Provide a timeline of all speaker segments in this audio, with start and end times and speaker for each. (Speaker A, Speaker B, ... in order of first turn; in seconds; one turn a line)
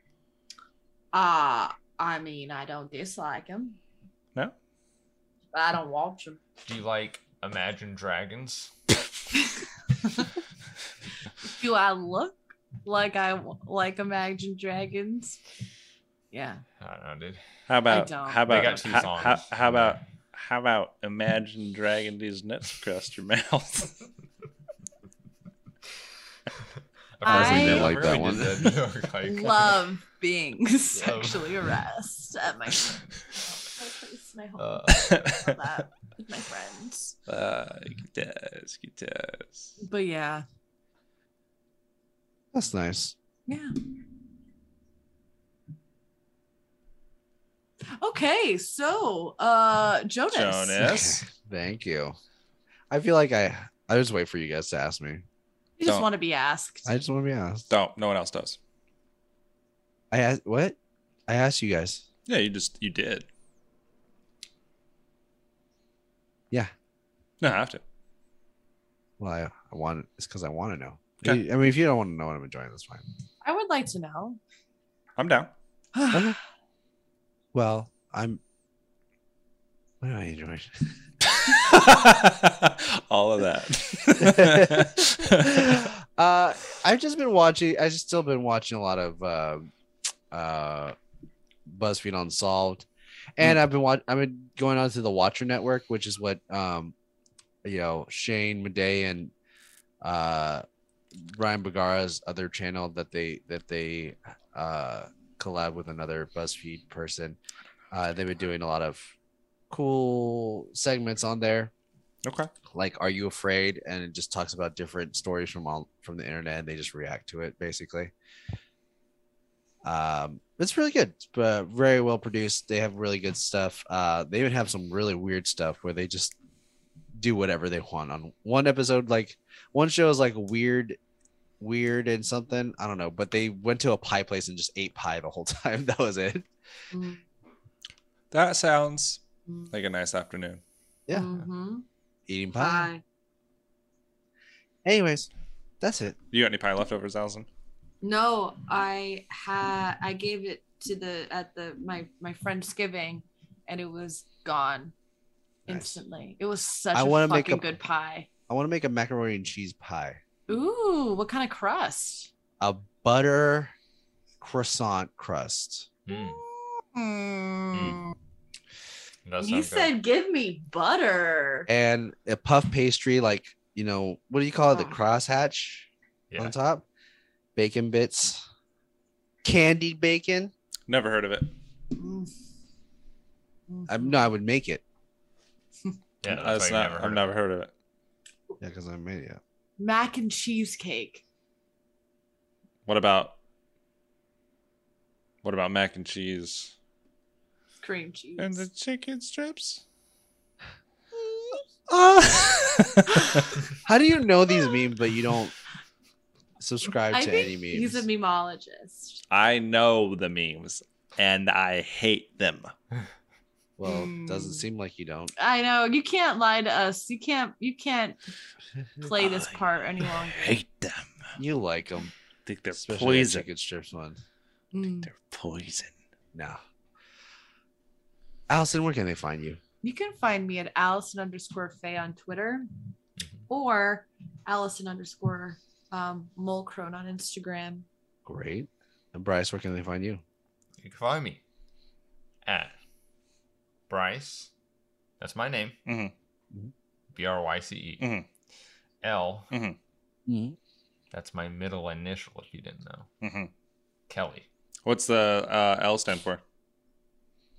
Speaker A: 1.1-3.8
Speaker A: 5.5-6.4
Speaker B: 6.6-8.7
Speaker A: 11.4-15.4
Speaker A: 16.3-16.6
Speaker B: 16.8-17.4
Speaker C: 17.7-24.0
Speaker A: 17.9-18.8
Speaker B: 18.5-20.0
Speaker B: 27.2-29.8
Speaker A: 27.2-28.0
Speaker D: 27.3-28.8
Speaker C: 27.9-28.5
Speaker A: 29.2-37.2
Speaker B: 30.9-31.7
Speaker B: 34.6-35.3
Speaker C: 34.9-35.4
Speaker C: 37.3-39.8
Speaker A: 39.8-40.5
Speaker D: 42.5-43.1
Speaker A: 43.5-43.7
Speaker A: 47.9-50.8
Speaker C: 50.3-51.2
Speaker D: 50.8-52.2
Speaker D: 52.9-55.2
Speaker A: 55.8-56.9
Speaker D: 56.9-57.6
Speaker C: 57.7-58.6
Speaker D: 60.1-60.8
Speaker D: 61.3-62.0
Speaker C: 62.3-63.3
Speaker C: 67.4-67.8
Speaker D: 69.2-73.0
Speaker A: 73.4-74.4
Speaker C: 75.2-75.5
Speaker A: 76.0-76.3
Speaker D: 76.1-76.4
Speaker D: 77.5-78.4
Speaker D: 80.0-80.9
Speaker C: 81.3-85.9
Speaker D: 84.2-89.7
Speaker D: 90.3-91.0
Speaker D: 91.7-96.9
Speaker D: 97.6-99.3
Speaker D: 100.0-100.6
Speaker D: 101.2-107.4
Speaker D: 107.9-109.1
Speaker D: 109.7-111.7
Speaker C: 112.2-112.5
Speaker D: 112.7-118.1
Speaker D: 119.8-126.3
Speaker D: 127.2-131.0
Speaker D: 131.6-136.5
Speaker A: 136.9-137.2
Speaker C: 138.3-140.6
Speaker A: 141.1-141.8
Speaker D: 142.3-142.9
Speaker A: 142.5-143.0
Speaker D: 144.8-145.3
Speaker D: 145.8-146.2
Speaker C: 146.3-147.5
Speaker A: 148.0-154.9
Speaker D: 155.7-156.0
Speaker A: 155.7-158.3
Speaker D: 156.9-157.6
Speaker D: 158.5-160.2
Speaker A: 160.5-162.3
Speaker D: 162.6-163.7
Speaker D: 164.4-165.9
Speaker B: 166.1-166.4
Speaker A: 166.1-168.1
Speaker B: 167.7-168.0
Speaker B: 169.2-169.9
Speaker A: 169.4-171.7
Speaker D: 171.7-176.8
Speaker A: 174.7-175.0
Speaker D: 177.6-178.4
Speaker D: 179.4-180.5
Speaker C: 180.9-181.5
Speaker A: 181.9-182.3
Speaker A: 183.7-184.2
Speaker D: 183.9-184.8
Speaker B: 186.2-187.2
Speaker C: 186.2-187.7
Speaker D: 188.6-189.4
Speaker A: 189.8-191.2
Speaker C: 192.9-193.4
Speaker C: 195.4-196.7
Speaker A: 197.8-198.7
Speaker C: 198.4-199.8
Speaker D: 201.9-203.2
Speaker D: 203.8-205.5
Speaker D: 206.6-208.0
Speaker A: 207.1-209.2
Speaker C: 209.3-212.7
Speaker D: 213.8-215.3
Speaker A: 213.8-214.7
Speaker A: 215.4-218.2
Speaker A: 219.0-220.5
Speaker C: 219.2-221.1
Speaker D: 221.4-222.1
Speaker C: 222.5-223.5
Speaker D: 222.7-224.2
Speaker A: 224.7-225.1
Speaker C: 225.0-225.9
Speaker D: 226.3-226.6
Speaker D: 228.5-229.6
Speaker A: 229.8-232.7
Speaker A: 233.5-237.9
Speaker D: 238.2-240.2
Speaker B: 240.8-241.4
Speaker B: 242.4-242.8
Speaker B: 243.9-244.5
Speaker B: 245.2-245.8
Speaker C: 245.9-246.1
Speaker B: 247.1-248.1
Speaker C: 248.0-248.3
Speaker B: 249.0-249.5
Speaker C: 249.5-249.8
Speaker D: 250.3-250.6
Speaker B: 251.1-253.1
Speaker C: 253.2-253.5
Speaker B: 254.1-254.5
Speaker C: 254.8-256.4